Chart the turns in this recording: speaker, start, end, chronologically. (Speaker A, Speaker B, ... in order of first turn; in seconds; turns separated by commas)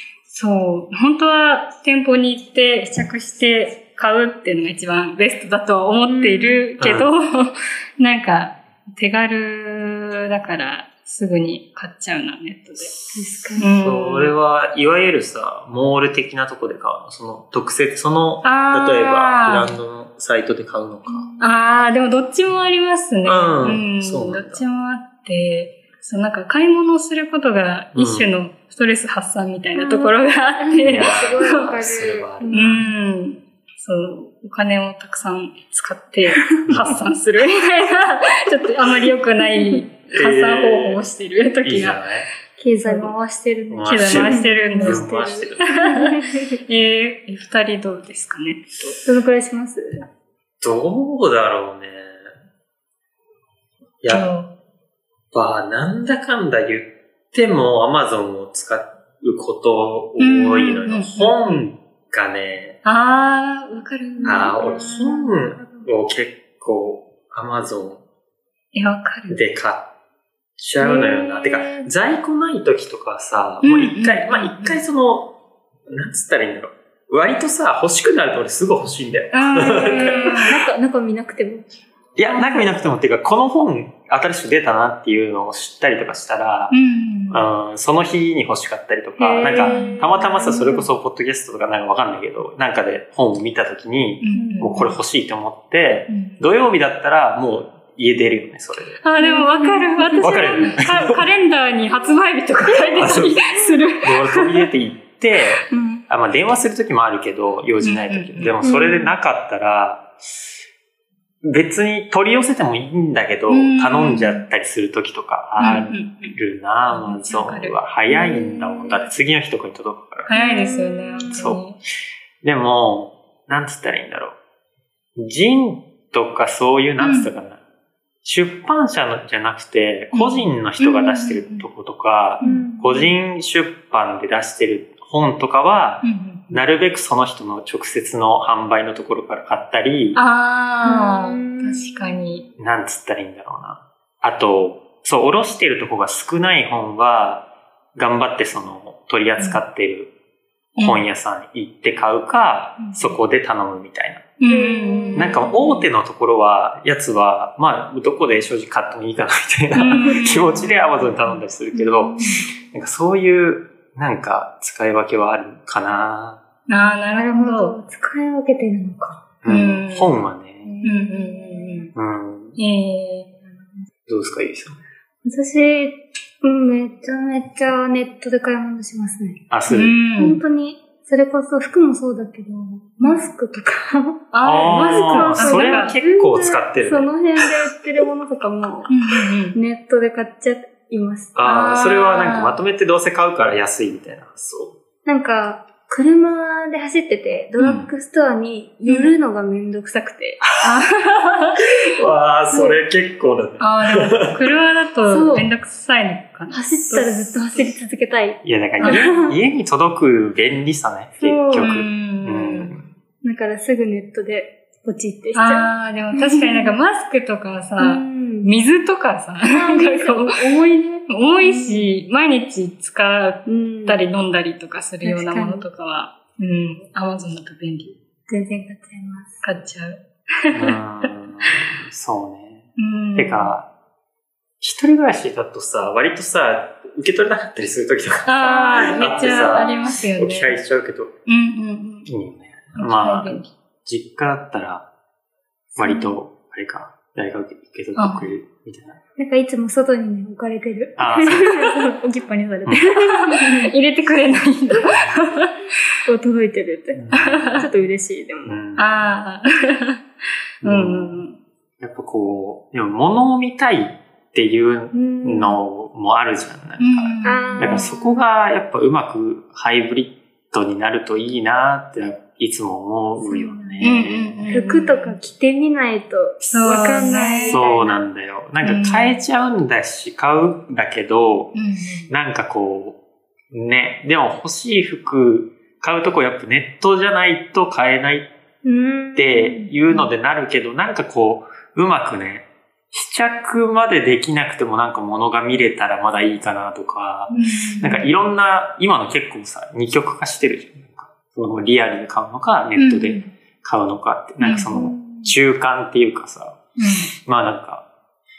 Speaker A: 0.3-12.9, Speaker B: 6.1-6.7, Speaker C: 6.8-7.1, Speaker B: 13.1-13.7, Speaker C: 13.6-21.3, Speaker A: 13.6-14.4, Speaker A: 18.4-19.8, Speaker B: 21.1-21.6, Speaker A: 21.4-31.7, Speaker C: 23.2-24.6, Speaker C: 27.9-28.3, Speaker B: 29.8-32.9, Speaker C: 30.8-32.9, Speaker A: 32.5-42.0, Speaker C: 36.7-37.0, Speaker B: 39.4-39.8, Speaker C: 40.1-41.1, Speaker C: 41.6-42.3, Speaker B: 42.6-46.5, Speaker A: 42.8-43.1, Speaker C: 43.7-45.7, Speaker A: 43.9-45.1, Speaker A: 45.6-48.9, Speaker B: 49.0-50.0, Speaker C: 50.6-52.2, Speaker C: 54.0-54.3, Speaker A: 54.1-54.5, Speaker C: 55.3-62.8, Speaker A: 60.2-61.6, Speaker A: 62.8-64.8, Speaker B: 64.2-65.9, Speaker C: 64.2-68.0, Speaker A: 68.7-69.4, Speaker C: 69.3-69.9, Speaker C: 70.6-75.4, Speaker B: 70.8-71.9, Speaker A: 73.6-74.8, Speaker C: 75.9-80.4, Speaker A: 79.3-80.5, Speaker B: 79.9-81.7, Speaker C: 82.2-86.8, Speaker B: 82.3-82.7, Speaker A: 86.7-87.5, Speaker C: 87.3-99.0, Speaker B: 89.2-90.9, Speaker A: 89.4-90.1, Speaker A: 94.2-95.0, Speaker B: 94.3-94.9, Speaker A: 96.1-96.4, Speaker A: 99.0-104.6, Speaker B: 99.2-100.5, Speaker C: 100.2-101.2, Speaker C: 102.8-110.1, Speaker A: 105.7-106.0, Speaker A: 107.8-108.6, Speaker B: 108.6-109.1, Speaker C: 111.4-120.3, Speaker A: 113.5-114.5, Speaker A: 115.6-116.4, Speaker A: 116.9-118.3, Speaker B: 118.2-118.9, Speaker A: 120.3-121.8, Speaker B: 120.3-121.4, Speaker C: 121.3-121.6, Speaker C: 122.4-124.4, Speaker C: 125.2-127.6, Speaker A: 127.0-127.3, Speaker C: 128.2-140.2, Speaker A: 130.1-131.7, Speaker A: 132.4-132.7, Speaker B: 132.4-133.1, Speaker A: 136.0-136.6, Speaker A: 140.2-142.5, Speaker B: 140.8-142.4, Speaker C: 142.6-150.1, Speaker A: 150.8-151.0, Speaker C: 150.8-154.3, Speaker A: 152.8-153.2, Speaker A: 154.4-155.9, Speaker B: 154.5-155.4, Speaker C: 155.2-166.4, Speaker A: 159.8-161.4, Speaker B: 159.8-160.3, Speaker B: 161.7-162.4, Speaker A: 166.7-167.8, Speaker B: 166.8-169.3, Speaker C: 169.4-170.7, Speaker A: 169.5-170.2, Speaker B: 170.7-171.9, Speaker A: 170.8-171.9, Speaker C: 171.9-172.6, Speaker A: 172.6-173.3, Speaker C: 174.1-174.8, Speaker B: 175.2-179.4, Speaker C: 179.5-180.0, Speaker A: 179.7-180.4, Speaker B: 180.2-188.9, Speaker A: 183.0-183.3, Speaker A: 184.3-185.9, Speaker C: 184.4-187.5, Speaker A: 188.9-189.6, Speaker B: 189.5-191.4, Speaker C: 191.3-194.8, Speaker A: 191.4-192.6, Speaker B: 195.1-200.5, Speaker C: 197.6-197.9, Speaker A: 198.9-199.1, Speaker A: 200.6-201.6, Speaker C: 201.8-204.4, Speaker B: 202.5-202.8, Speaker A: 203.6-207.8, Speaker B: 205.1-205.5, Speaker B: 206.5-209.4, Speaker C: 208.4-212.9, Speaker A: 208.8-209.1, Speaker B: 211.2-211.7, Speaker A: 211.6-212.7, Speaker B: 213.2-216.8, Speaker A: 215.3-220.3, Speaker B: 217.8-218.5, Speaker B: 219.5-221.9, Speaker A: 221.1-228.0, Speaker B: 223.5-224.1, Speaker B: 225.0-225.7, Speaker B: 228.3-229.4, Speaker A: 229.4-231.1, Speaker C: 230.5-233.7, Speaker A: 232.8-233.5, Speaker C: 234.6-241.2, Speaker A: 238.3-240.6, Speaker B: 238.4-240.0, Speaker A: 241.3-242.1, Speaker C: 242.1-244.9, Speaker A: 242.8-243.5, Speaker C: 245.8-249.0, Speaker B: 245.8-246.1, Speaker A: 248.0-248.3, Speaker B: 249.2-253.7, Speaker C: 251.0-251.8, Speaker C: 252.7-253.0, Speaker A: 253.3-255.5, Speaker B: 256.1-257.0, Speaker C: 257.0-257.6, Speaker A: 257.1-257.7, Speaker B: 257.6-258.6, Speaker C: 258.5-259.1, Speaker A: 258.8-260.0, Speaker A: 260.6-261.4, Speaker C: 260.6-261.2, Speaker C: 261.8-274.6, Speaker B: 264.9-265.6, Speaker A: 266.8-267.9, Speaker B: 267.2-268.2, Speaker B: 273.2-273.9, Speaker A: 273.8-275.2, Speaker B: 274.5-278.0, Speaker C: 276.5-281.6, Speaker A: 276.5-277.6, Speaker A: 278.6-279.2, Speaker A: 281.6-282.1, Speaker C: 282.1-283.0, Speaker C: 283.5-288.3, Speaker B: 288.6-289.7, Speaker C: 289.2-306.6, Speaker A: 297.3-298.1, Speaker A: 302.8-303.3, Speaker A: 304.4-304.7, Speaker B: 304.5-305.3, Speaker A: 306.8-307.1, Speaker C: 307.3-307.9